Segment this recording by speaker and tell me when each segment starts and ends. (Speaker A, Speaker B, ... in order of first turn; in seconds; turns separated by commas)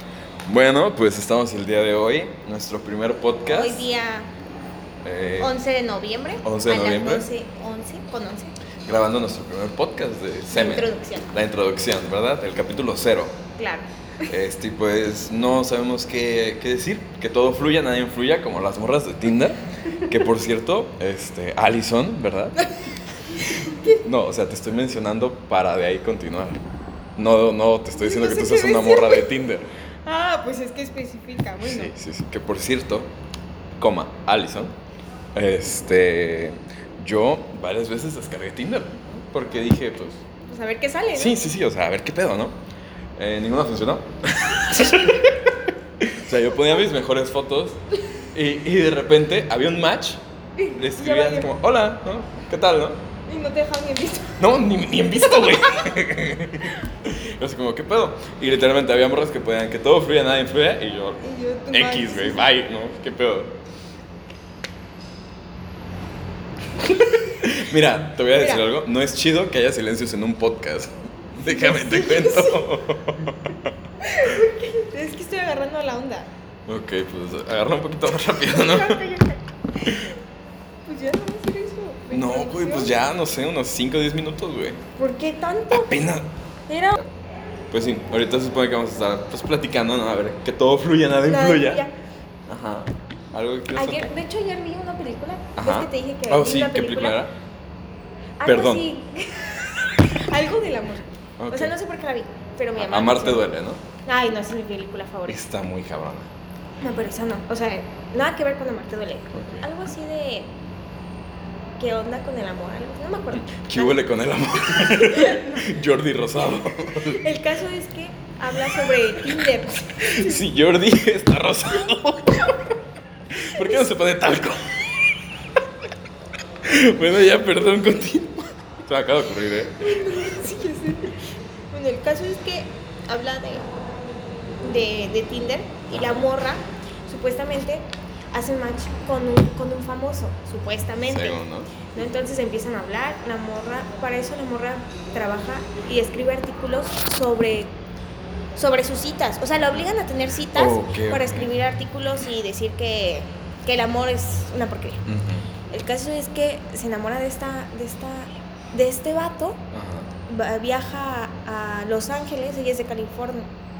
Speaker A: 0.5-3.9, Speaker B: 3.5-4.3, Speaker A: 5.0-5.5, Speaker B: 5.4-8.5, Speaker A: 6.4-7.3, Speaker A: 8.8-13.3, Speaker B: 10.5-11.3, Speaker B: 13.6-14.3, Speaker A: 14.3-22.6, Speaker B: 23.3-24.0, Speaker A: 24.0-26.6, Speaker A: 27.2-29.7, Speaker B: 27.9-29.2, Speaker B: 30.1-31.9, Speaker A: 31.6-33.1, Speaker A: 33.8-34.7, Speaker A: 35.3-40.2, Speaker B: 40.4-41.4, Speaker A: 41.1-42.5, Speaker A: 43.2-45.4, Speaker A: 46.0-47.8, Speaker A: 48.3-50.2, Speaker B: 50.6-51.5, Speaker A: 50.8-53.0, Speaker B: 53.3-54.4, Speaker A: 54.4-63.6, Speaker B: 61.2-62.5, Speaker A: 67.2-73.7, Speaker B: 68.3-68.6, Speaker B: 71.4-72.6, Speaker B: 74.0-76.3, Speaker A: 76.7-79.1, Speaker B: 78.4-80.1, Speaker B: 80.8-82.9, Speaker A: 82.1-84.8, Speaker B: 85.0-86.1, Speaker A: 85.7-86.2, Speaker B: 86.7-87.0, Speaker A: 87.7-91.9, Speaker B: 91.2-91.9, Speaker A: 92.5-94.1, Speaker B: 93.8-97.2, Speaker A: 95.6-97.3, Speaker B: 98.4-103.4, Speaker A: 98.4-98.9, Speaker A: 101.4-101.7, Speaker A: 102.8-103.8, Speaker B: 104.0-105.4, Speaker A: 105.3-106.3, Speaker B: 106.8-110.5, Speaker A: 109.3-109.7, Speaker B: 111.8-113.9, Speaker A: 113.4-117.2, Speaker B: 114.8-115.6, Speaker B: 117.0-120.4, Speaker A: 120.0-122.7, Speaker A: 123.3-125.2, Speaker A: 126.6-130.4, Speaker B: 129.8-133.7, Speaker B: 134.6-141.4, Speaker A: 135.9-136.3, Speaker A: 141.0-141.7, Speaker B: 141.9-147.7, Speaker B: 148.6-155.0, Speaker A: 150.5-151.5, Speaker A: 155.1-155.4, Speaker B: 155.7-159.6, Speaker A: 159.7-160.1, Speaker B: 160.2-163.5